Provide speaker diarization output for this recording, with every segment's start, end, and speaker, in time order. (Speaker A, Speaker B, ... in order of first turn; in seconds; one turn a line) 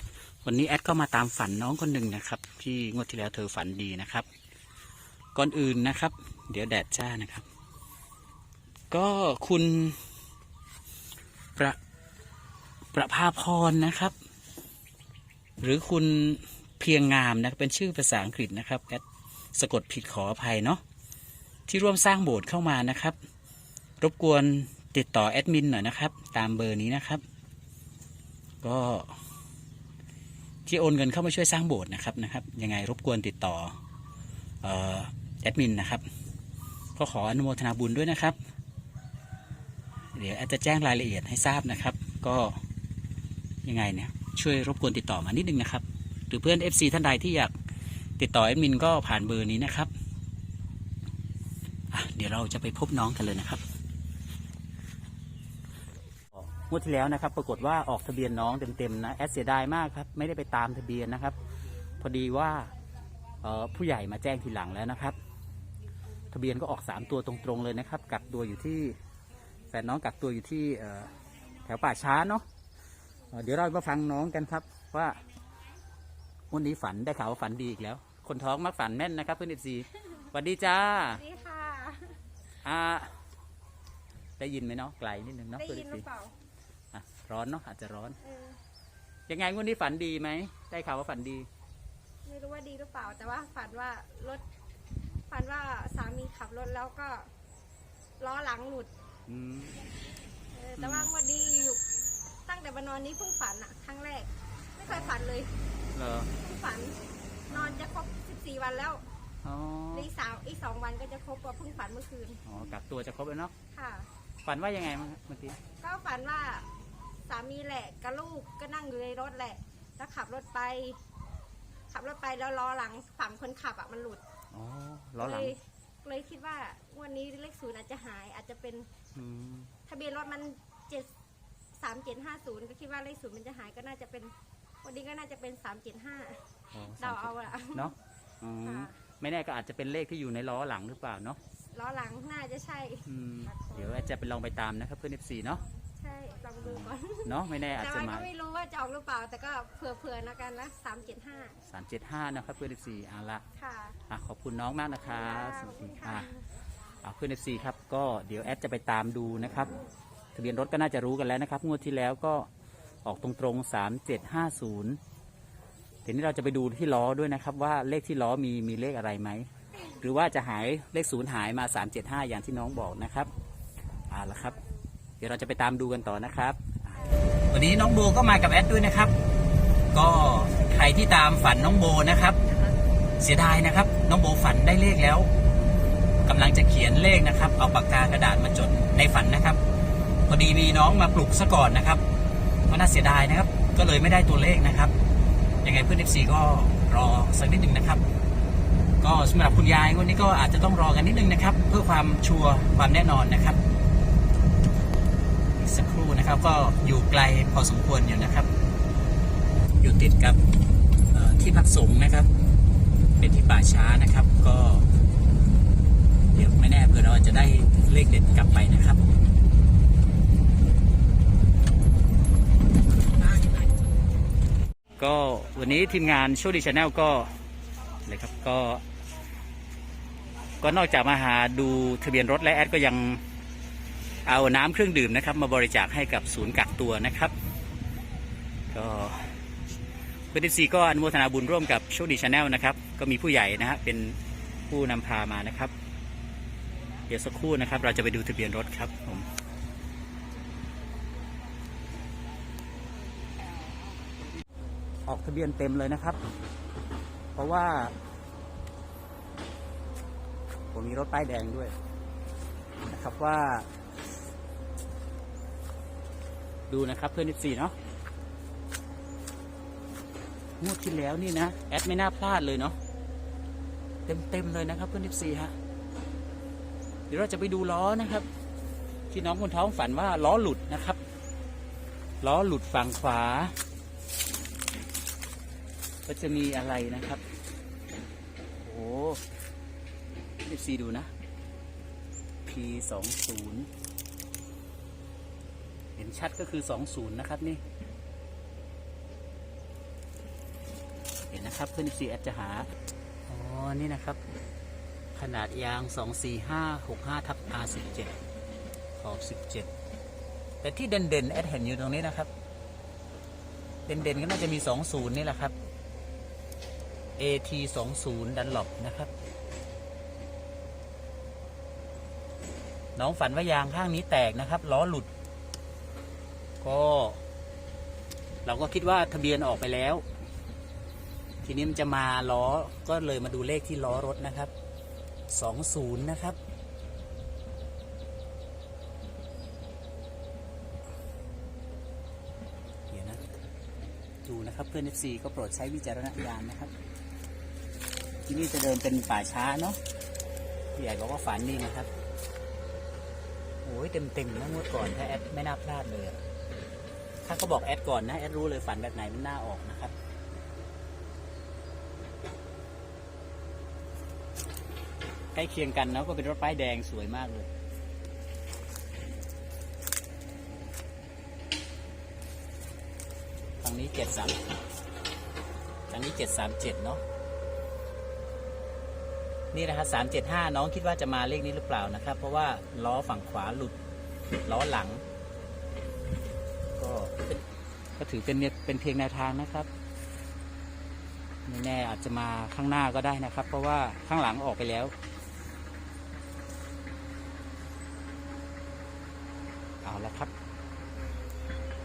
Speaker A: 0.4-4.2
Speaker A: 5.3-7.5
Speaker A: 8.9-10.0
Speaker A: 12.9-14.1
Speaker A: 15.6-19.0
Speaker A: 19.5-20.8
Speaker A: 21.7-23.1
Speaker A: 24.0-27.2
Speaker A: 28.6-29.1
Speaker A: 30.6-33.7
Speaker A: 34.6-36.0
Speaker A: 37.0-38.4
Speaker A: 40.1-42.6
Speaker A: 43.6-47.5
Speaker A: 48.2-49.9
Speaker A: 51.9-53.6
Speaker A: 56.4-61.4
Speaker A: 62.0-62.7
Speaker A: 63.4-65.2
Speaker A: 66.3-69.0
Speaker A: 69.7-71.1
Speaker A: 71.6-72.4
Speaker A: 73.3-75.2
Speaker A: 76.5-81.2
Speaker B: 81.1-82.2
Speaker A: 82.6-83.1
Speaker A: 84.4-86.0
Speaker B: 85.5-86.3
Speaker A: 86.9-88.2
Speaker B: 88.2-88.6
Speaker A: 89.3-91.5
Speaker B: 92.2-94.4
Speaker B: 95.3-97.3
Speaker B: 98.2-98.9
Speaker A: 99.3-99.8
Speaker B: 100.5-101.8
Speaker A: 100.8-101.1
Speaker B: 102.5-105.5
Speaker A: 104.9-105.1
Speaker A: 105.9-106.3
Speaker B: 106.4-109.0
Speaker A: 107.5-107.9
Speaker A: 109.4-110.1
Speaker B: 109.9-112.4
Speaker A: 112.4-113.5
Speaker B: 113.7-114.1
Speaker A: 114.4-115.6
Speaker B: 115.8-116.7
Speaker B: 117.2-121.0
Speaker B: 121.9-124.2
Speaker A: 124.5-125.5
Speaker B: 125.2-128.9
Speaker A: 129.1-129.7
Speaker B: 129.9-131.1
Speaker B: 131.8-136.4
Speaker A: 136.7-141.4
Speaker B: 137.0-137.9
Speaker B: 138.6-138.9
Speaker B: 141.7-143.0
Speaker A: 143.1-145.6
Speaker B: 146.0-151.6
Speaker A: 146.6-148.3
Speaker A: 151.7-153.4
Speaker B: 153.6-154.0
Speaker A: 154.1-156.3
Speaker B: 155.2-156.4
Speaker A: 157.0-159.7
Speaker A: 160.3-162.5
Speaker A: 163.0-165.0
Speaker A: 166.0-169.5
Speaker A: 170.0-173.3
Speaker A: 174.1-174.6
Speaker A: 175.2-179.1
Speaker A: 179.9-182.4
Speaker A: 183.2-185.3
Speaker A: 186.2-189.6
Speaker A: 190.3-192.0
Speaker A: 192.7-194.9
Speaker A: 195.6-198.0
Speaker A: 199.0-203.6
Speaker A: 205.6-208.5
Speaker A: 209.8-210.4
Speaker A: 211.1-212.3
Speaker A: 213.2-214.9
Speaker A: 216.3-219.2
Speaker A: 225.0-227.3
Speaker A: 228.0-228.8
Speaker A: 230.6-233.2
Speaker A: 234.2-237.3
Speaker A: 238.7-239.3
Speaker A: 240.3-244.2
Speaker A: 244.7-245.7
Speaker A: 247.1-249.3
Speaker A: 255.1-256.2
Speaker A: 257.3-257.9
Speaker A: 260.7-261.7
Speaker A: 262.8-263.7
Speaker A: 266.7-267.7
Speaker A: 270.6-272.8
Speaker A: 274.1-275.5
Speaker A: 277.1-278.3
Speaker A: 279.1-281.0
Speaker A: 282.2-283.6
Speaker A: 286.1-287.2
Speaker A: 288.6-289.2
Speaker A: 290.4-291.1
Speaker A: 292.4-293.7
Speaker A: 295.9-297.6
Speaker A: 301.3-302.7
Speaker A: 303.3-304.2
Speaker A: 305.1-308.2
Speaker A: 309.0-309.7
Speaker A: 310.6-312.3
Speaker A: 313.9-315.5
Speaker A: 317.2-319.1
Speaker A: 322.9-325.1
Speaker A: 326.6-327.2
Speaker A: 328.4-330.0
Speaker A: 331.4-334.5
Speaker A: 335.3-336.4
Speaker A: 342.9-343.2
Speaker A: 344.2-346.7
Speaker A: 348.3-349.8
Speaker A: 350.8-351.9
Speaker A: 353.6-356.2
Speaker A: 357.2-359.9
Speaker A: 365.3-367.5
Speaker A: 373.6-374.4
Speaker A: 375.9-377.0
Speaker A: 379.5-383.7
Speaker A: 384.4-385.0
Speaker A: 386.8-387.4
Speaker A: 388.0-389.7
Speaker A: 391.5-394.9
Speaker A: 399.8-400.3